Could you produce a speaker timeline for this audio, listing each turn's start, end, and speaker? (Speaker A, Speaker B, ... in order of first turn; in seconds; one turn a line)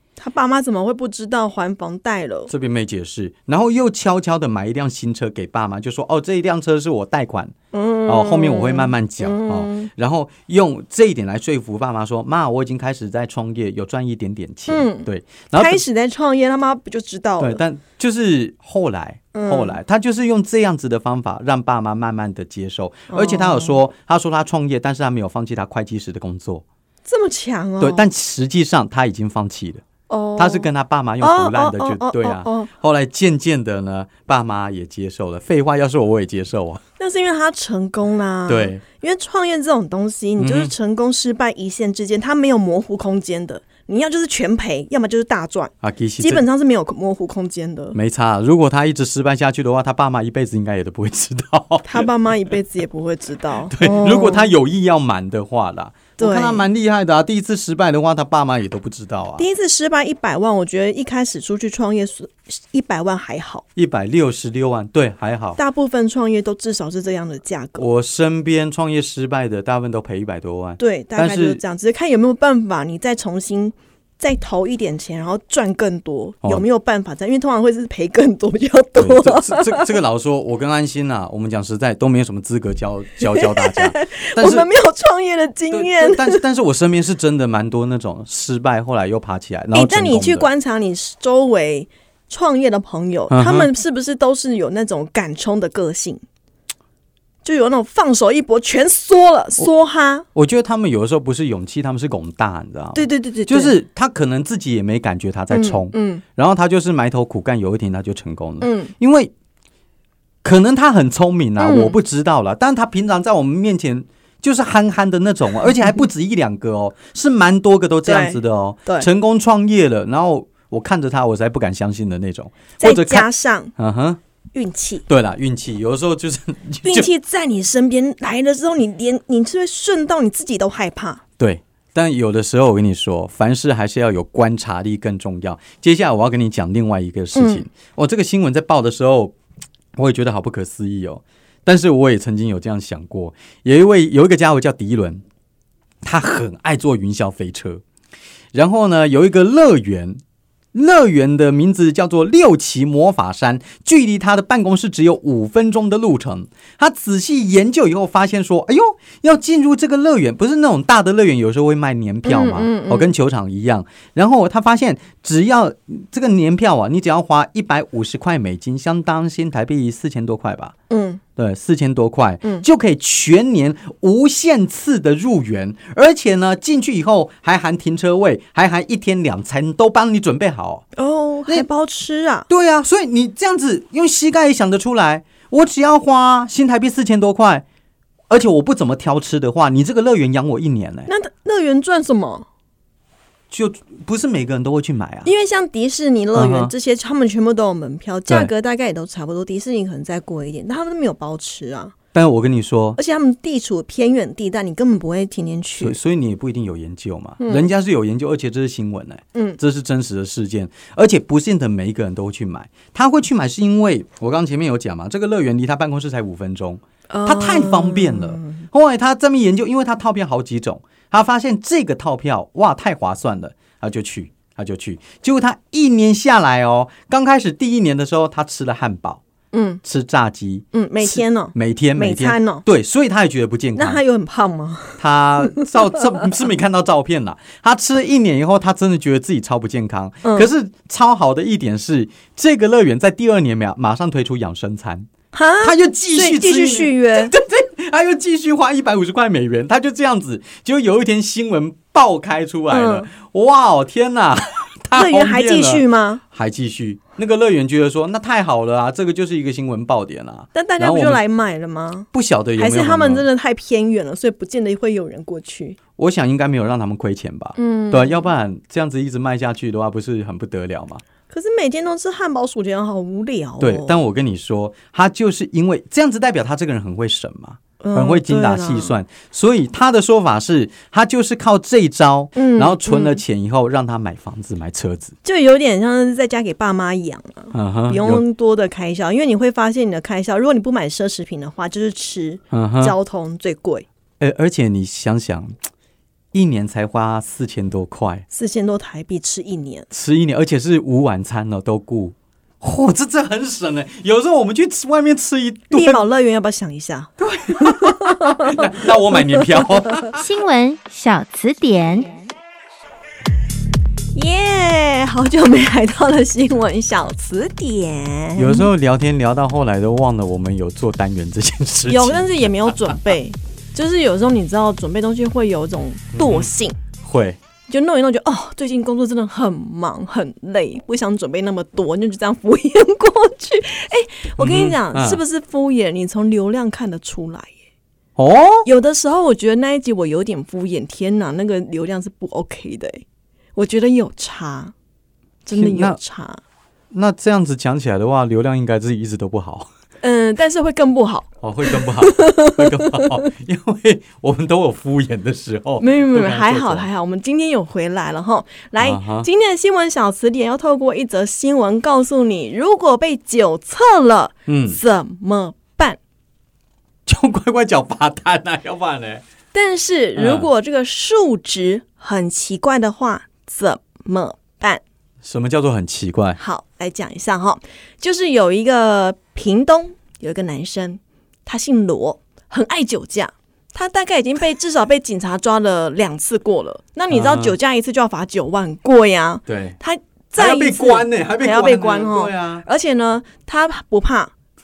Speaker A: 0.2-2.5
Speaker B: 2.5-7.5
Speaker A: 7.7-9.9
Speaker B: 8.1-15.8
Speaker A: 14.7-17.6
Speaker B: 17.4-26.6
Speaker A: 19.3-19.8
Speaker A: 23.1-23.8
Speaker A: 27.1-28.1
Speaker B: 27.8-29.9
Speaker A: 30.1-30.7
Speaker B: 30.4-36.8
Speaker A: 31.2-32.7
Speaker A: 37.0-48.0
Speaker B: 38.5-38.8
Speaker B: 40.4-40.7
Speaker B: 45.8-46.4
Speaker B: 47.9-52.1
Speaker A: 51.8-54.5
Speaker B: 53.7-59.4
Speaker A: 56.2-56.7
Speaker A: 59.4-63.6
Speaker B: 63.8-65.6
Speaker A: 65.5-67.9
Speaker B: 67.8-71.6
Speaker A: 70.8-79.9
Speaker B: 79.0-84.7
Speaker A: 83.2-86.4
Speaker B: 85.7-90.5
Speaker A: 89.7-96.2
Speaker B: 93.3-93.7
Speaker A: 97.4-100.3
Speaker B: 100.3-109.3
Speaker A: 102.9-103.7
Speaker A: 105.5-106.2
Speaker A: 108.6-108.9
Speaker B: 110.4-124.2
Speaker A: 111.6-112.0
Speaker A: 118.0-119.1
Speaker A: 122.8-123.7
Speaker A: 124.5-125.0
Speaker B: 125.1-127.1
Speaker A: 126.8-131.2
Speaker B: 131.4-139.3
Speaker A: 137.3-137.7
Speaker B: 139.9-145.2
Speaker B: 146.0-147.8
Speaker B: 148.5-150.2
Speaker B: 150.7-170.7
Speaker A: 162.2-163.1
Speaker A: 170.9-171.2
Speaker B: 171.3-180.8
Speaker A: 180.9-182.5
Speaker B: 182.5-187.6
Speaker B: 188.3-191.1
Speaker A: 191.1-192.5
Speaker B: 193.5-195.3
Speaker A: 195.2-201.9
Speaker B: 196.3-196.7
Speaker B: 202.1-203.0
Speaker A: 203.0-206.0
Speaker B: 205.8-229.2
Speaker A: 207.4-207.7
Speaker A: 209.3-209.6
Speaker A: 217.1-218.6
Speaker A: 229.5-229.8
Speaker B: 229.8-234.0
Speaker A: 230.7-232.6
Speaker A: 233.7-235.7
Speaker B: 235.0-245.1
Speaker A: 240.2-240.5
Speaker A: 245.3-247.3
Speaker B: 245.6-261.2
Speaker A: 252.7-253.1
Speaker A: 254.9-256.2
Speaker A: 260.5-265.8
Speaker B: 262.1-263.2
Speaker B: 266.0-271.0
Speaker A: 267.6-268.3
Speaker A: 271.3-274.0
Speaker B: 273.6-285.1
Speaker A: 277.8-278.9
Speaker A: 282.3-283.2
Speaker A: 285.2-293.9
Speaker B: 287.5-288.2
Speaker B: 292.5-292.9
Speaker B: 294.2-295.6
Speaker B: 296.3-298.2
Speaker A: 298.3-299.9
Speaker B: 299.9-306.0
Speaker A: 305.7-308.6
Speaker B: 307.2-310.2
Speaker A: 309.4-309.6
Speaker C: 310.1-312.2
Speaker A: 314.1-318.7
Speaker B: 318.4-322.8
Speaker A: 321.9-326.8
Speaker B: 326.1-327.4
Speaker A: 327.7-337.5
Speaker B: 334.4-335.2
Speaker B: 338.2-338.7
Speaker A: 338.6-343.0
Speaker A: 343.5-344.7
Speaker A: 345.4-346.4
Speaker B: 345.5-346.0
Speaker B: 346.9-349.7
Speaker A: 350.0-353.1
Speaker B: 351.4-356.9
Speaker A: 355.8-366.0
Speaker B: 358.8-359.3
Speaker B: 364.5-364.8
Speaker B: 367.1-369.2
Speaker A: 369.5-374.8
Speaker B: 370.1-370.5
Speaker B: 375.2-376.4
Speaker A: 376.4-394.3
Speaker B: 387.1-387.5
Speaker B: 389.5-389.8
Speaker B: 390.4-392.6